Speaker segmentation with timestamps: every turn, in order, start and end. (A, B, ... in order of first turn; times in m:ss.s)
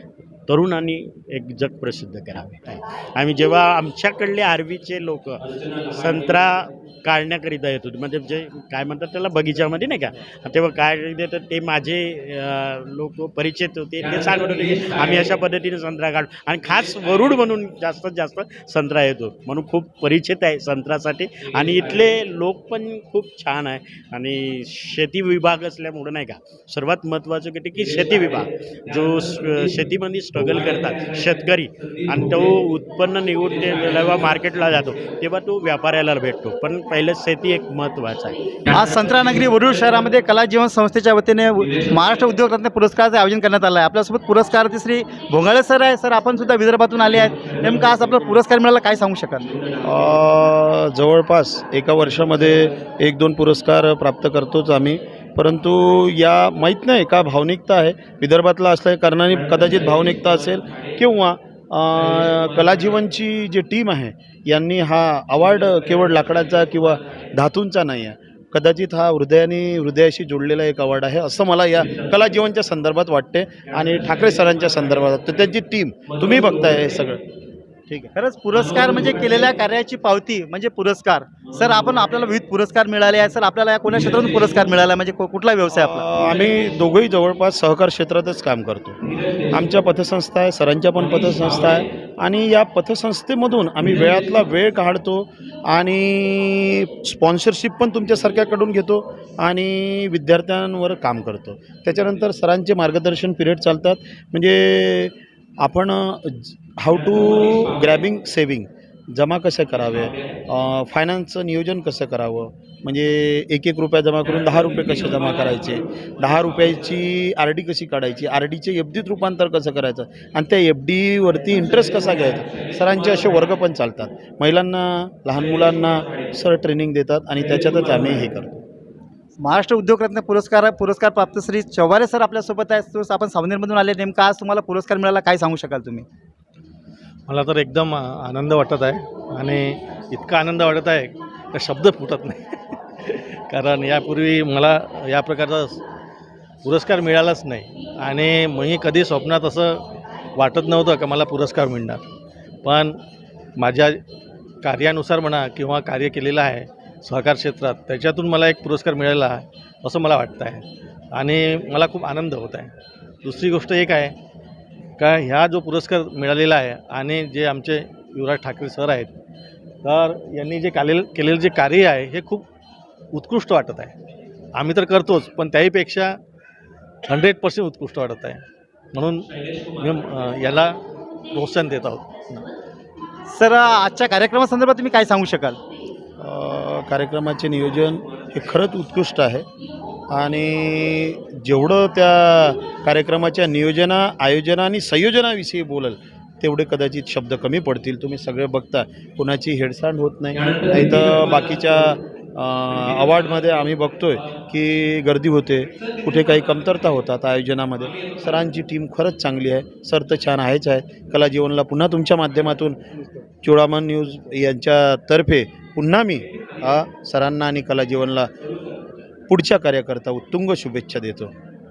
0:00.5-0:38.4 A
0:38.7-0:49.5 B
0:49.8-1:17.2 C
1:18.1-1:26.1 B
1:25.7-1:29.0 C
1:29.5-2:08.6 C
2:09.4-2:16.0 B
2:17.3-2:25.8 D
2:26.6-2:32.0 D
2:32.6-2:33.0 D
2:33.6-2:34.0 D
2:34.6-2:44.2 D
2:45.0-2:49.1 D
2:49.8-2:52.4 D
2:53.1-2:53.9 D
2:54.5-2:56.2 D
2:57.0-3:00.8 D
3:01.3-3:02.4 D
3:03.3-3:05.6 B
3:06.2-3:09.4 C
3:10.1-3:32.8 C
3:33.4-3:38.3 C
3:39.3-3:41.3 C